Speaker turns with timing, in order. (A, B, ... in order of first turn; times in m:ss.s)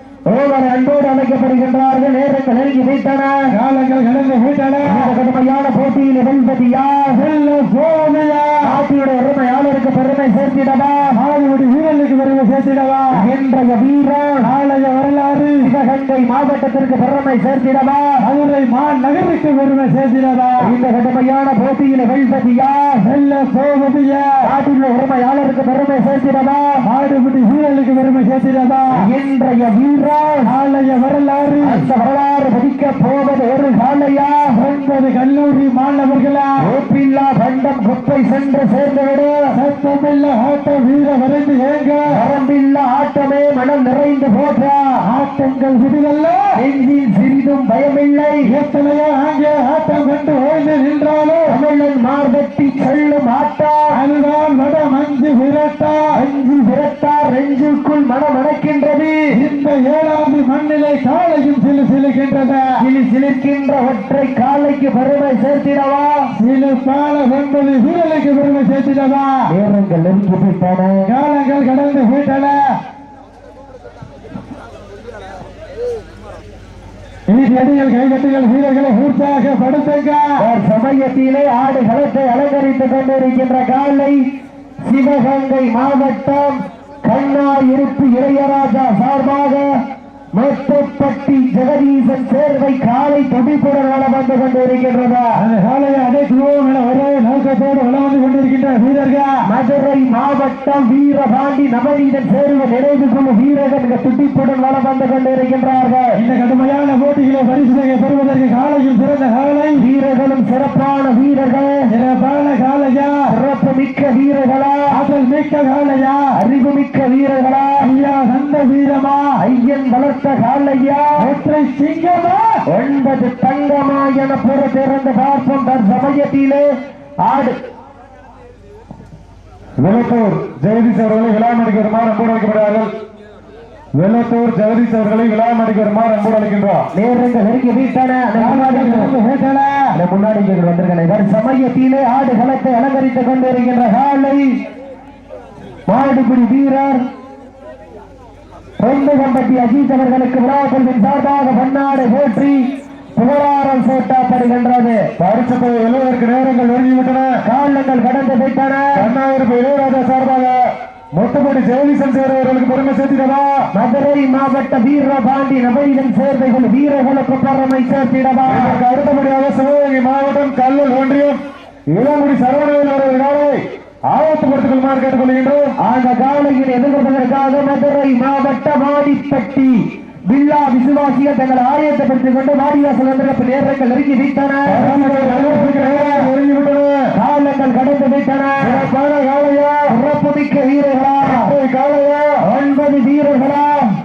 0:00.3-0:03.5 A
0:03.5-0:05.1 B
0:04.8-0:07.3 A
0:07.1-0:08.7 B
0:08.6-0:11.2 A
0:11.1-0:13.3 B
0:13.1-0:14.5 A
0:14.4-0:15.7 B
0:15.6-0:18.2 A
0:18.2-0:20.7 B
0:20.6-0:23.0 A
0:23.0-0:24.4 B
0:24.4-0:26.8 A
0:26.8-0:29.0 B
0:29.0-0:30.5 A
0:30.5-0:31.9 B
0:31.6-0:34.6 A
0:34.5-0:36.5 B
0:36.6-0:39.4 A
0:39.5-0:42.1 B
0:42.1-0:45.0 A
0:45.0-0:46.5 B
0:46.6-0:48.5 A
0:48.5-0:51.6 B
0:51.5-0:54.0 A
0:53.9-0:56.1 B
0:56.1-0:59.3 A
0:59.3-1:02.8 B
1:02.8-1:06.3 A
1:06.4-1:09.4 B
1:09.5-1:11.1 A
1:11.0-1:12.8 B
1:17.3-1:20.4 B
1:20.4-1:24.2 A
1:24.8-1:29.7 A
1:30.3-1:35.3 A
1:35.4-1:39.4 B
1:39.4-1:46.2 A
1:46.2-1:49.8 B
1:49.8-1:51.9 A
1:51.9-1:53.2 B
1:53.3-1:54.9 A
1:54.9-1:56.3 B
1:56.4-1:57.9 A
1:57.8-1:59.4 B
1:59.4-2:01.2 A
2:01.2-2:02.6 B
2:02.7-2:06.7 A
2:07.2-2:07.6 A
2:09.8-2:12.9 C
2:14.0-2:16.9 C
2:16.9-2:19.1 A
2:18.4-2:19.9 B
2:19.9-2:24.6 A
2:25.9-2:27.0 A
2:28.8-2:35.1 A
2:35.2-2:37.4 C
2:37.4-2:39.1 A
2:39.0-2:43.6 C
2:43.7-2:48.8 A
2:48.5-2:55.6 C
2:55.8-3:06.1 A
3:04.7-3:07.1 C
3:04.8-3:06.3 B
3:07.1-3:08.9 A
3:08.6-3:09.9 C
3:09.9-3:11.6 A
3:11.2-3:12.4 C
3:12.4-3:13.9 A